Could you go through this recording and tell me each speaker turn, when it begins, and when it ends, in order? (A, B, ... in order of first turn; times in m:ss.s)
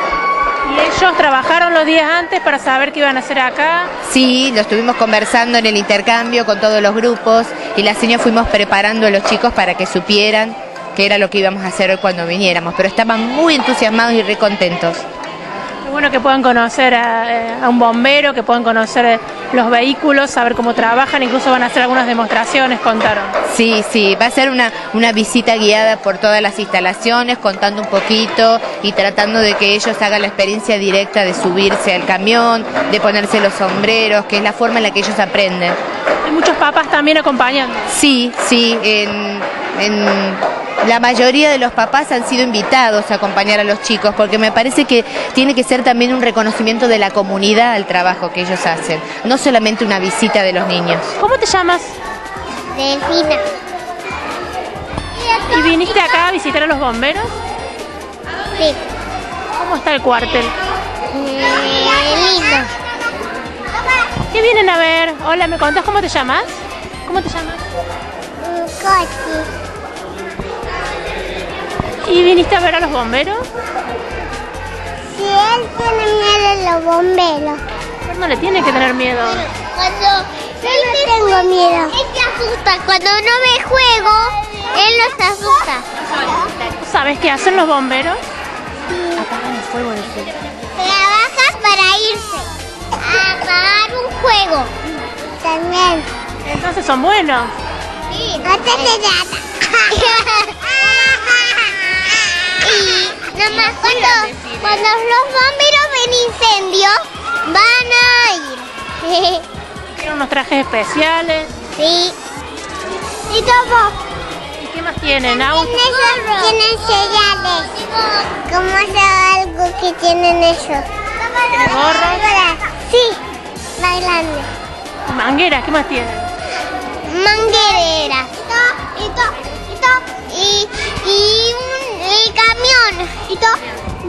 0:00.6-0:03.9 A
0:04.0-0:15.0 B
0:15.8-0:23.4 A
0:23.5-0:35.8 B
0:36.2-0:37.9 A
0:37.9-0:51.1 B
0:51.2-0:52.0 A
0:52.7-0:53.4 C
0:55.5-0:57.4 A
0:59.6-1:00.5 A
1:01.1-1:02.7 C
1:04.3-1:07.6 A
1:08.4-1:09.5 C
1:12.0-1:13.5 A
1:15.1-1:17.6 C
1:18.0-1:19.4 A
1:19.5-1:25.9 C
1:26.8-1:28.2 A
1:28.9-1:29.7 C
1:30.8-1:34.7 C
1:35.4-1:36.1 C
1:36.4-1:37.5 A
1:38.4-1:41.9 C
1:42.5-1:49.5 C
1:50.0-1:51.5 A
1:51.8-1:52.2 C
1:53.3-1:54.0 C
1:54.6-1:56.6 A
1:55.3-2:03.2 C
2:01.5-2:02.2 A
2:03.8-2:04.5 C
2:05.1-2:06.3 A
2:07.0-2:13.6 C